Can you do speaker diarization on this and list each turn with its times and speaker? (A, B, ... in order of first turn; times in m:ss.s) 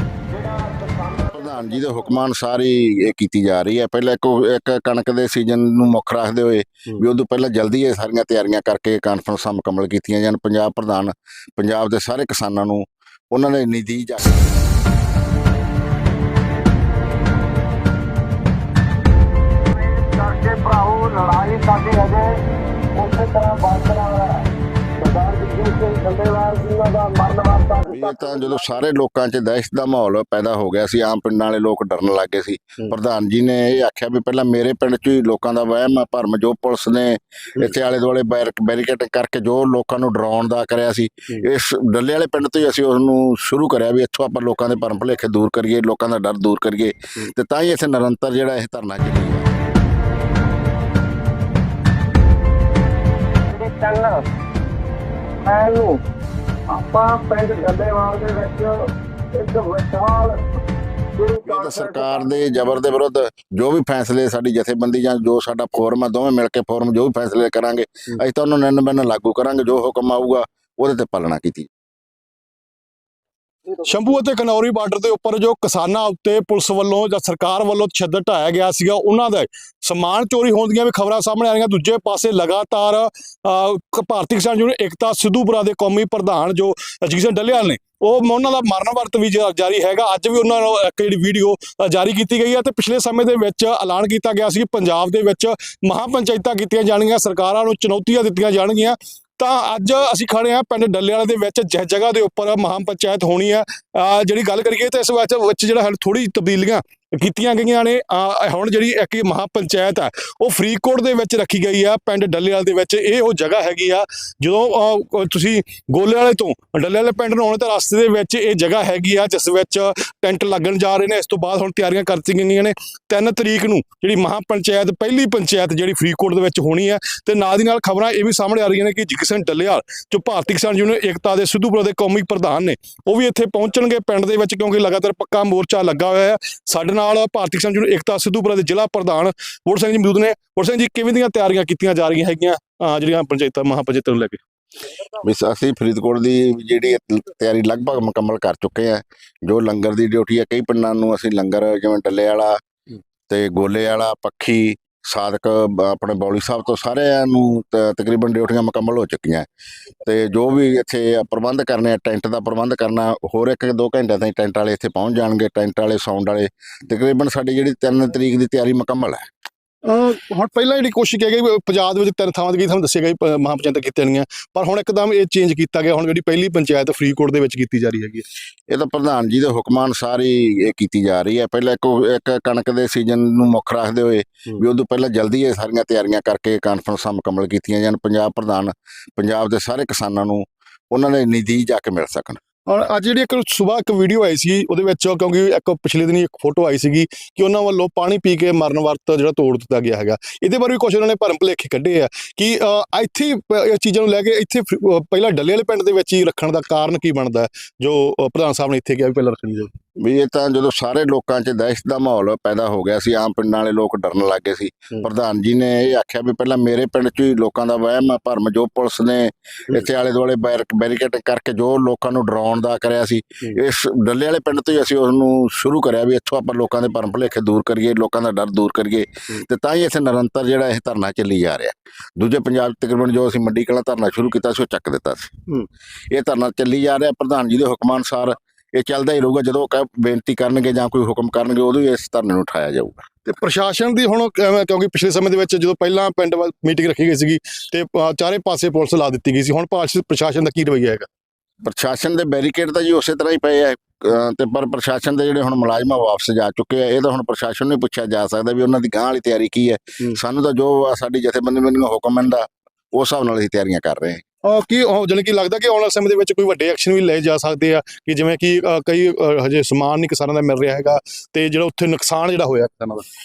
0:00.3-0:02.2 A
0:01.3-0:14.4 B
0:19.7-0:22.3 A
0:22.9-0:24.4 A
0:25.0-0:28.7 A
0:27.9-0:49.5 B
0:53.5-0:54.2 A
0:55.4-0:56.0 A
0:56.7-1:00.4 A
1:01.2-1:02.3 A
1:01.4-1:11.7 B
1:13.8-2:24.4 C
2:25.2-2:32.6 B
2:33.3-2:39.4 B
2:40.0-2:49.2 B
2:49.8-2:58.2 C
2:58.7-3:12.4 B
3:12.7-3:29.7 C
3:30.0-4:03.0 B
4:03.2-4:11.1 C
4:11.6-4:24.2 B
4:24.4-4:33.0 C